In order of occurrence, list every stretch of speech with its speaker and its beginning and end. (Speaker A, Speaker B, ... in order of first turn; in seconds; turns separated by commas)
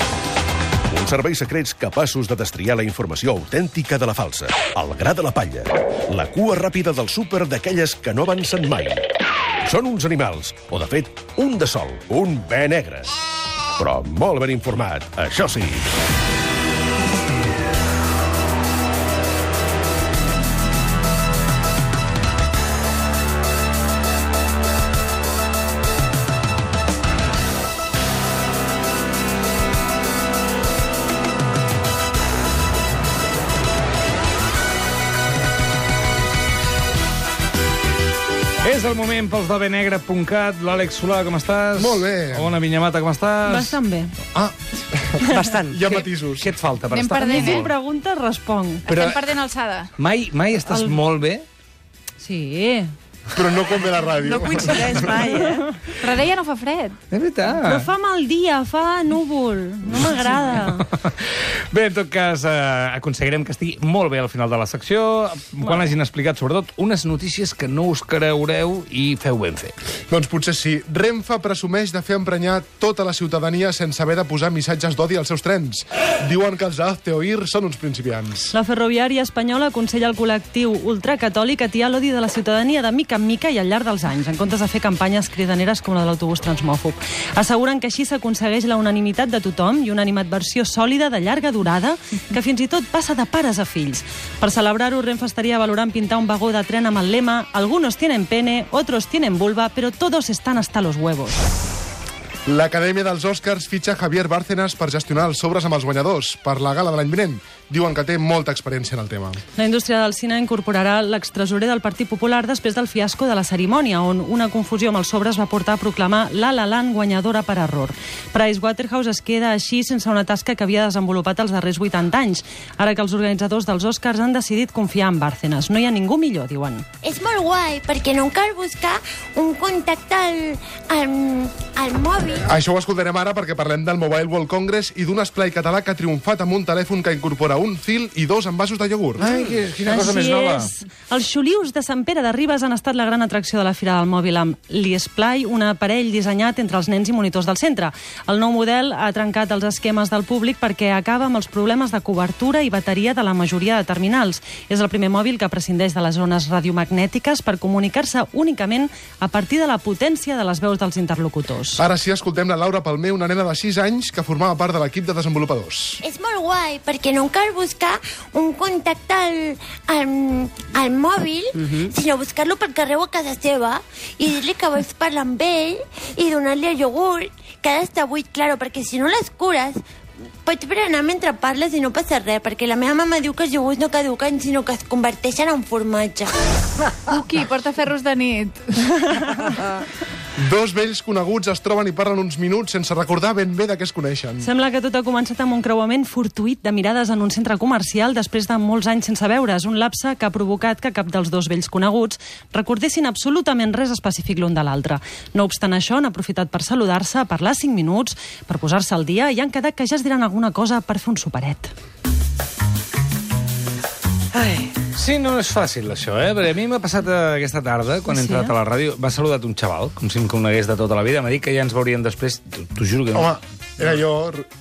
Speaker A: 0.9-9.1, Speaker A: 9.6-13.1, Speaker A: 13.8-15.9, Speaker B: 38.6-43.8, Speaker C: 41.8-42.6, Speaker D: 43.5-44.1, Speaker C: 44.3-46.5, Speaker E: 45.3-45.7, Speaker B: 45.8-47.7, Speaker F: 46.9-47.7, Speaker D: 47.2-48.9, Speaker F: 48.9-49.9, Speaker B: 48.9-49.3, Speaker B: 50.0-51.5, Speaker D: 50.7-51.0, Speaker D: 52.2-52.9, Speaker C: 53.3-55.2, Speaker E: 54.2-55.8, Speaker F: 56.0-57.0, Speaker B: 57.1-57.8, Speaker D: 57.6-60.9, Speaker B: 60.5-69.8, Speaker D: 65.6-65.9, Speaker C: 70.1-78.5, Speaker D: 78.5-101.4, Speaker C: 102.5-109.4, Speaker D: 109.6-126.9, Speaker G: 127.0-132.5, Speaker C: 132.5-139.3, Speaker B: 139.2-140.7, Speaker D: 139.8-161.8, Speaker C: 161.8-166.0, Speaker G: 166.0-179.8, Speaker G: 180.4-186.3, Speaker F: 187.1-189.1, Speaker C: 190.4-194.5, Speaker D: 194.4-211.7, Speaker E: 214.3-214.8, Speaker B: 214.9-224.0, Speaker D: 218.1-218.5, Speaker C: 223.1-224.5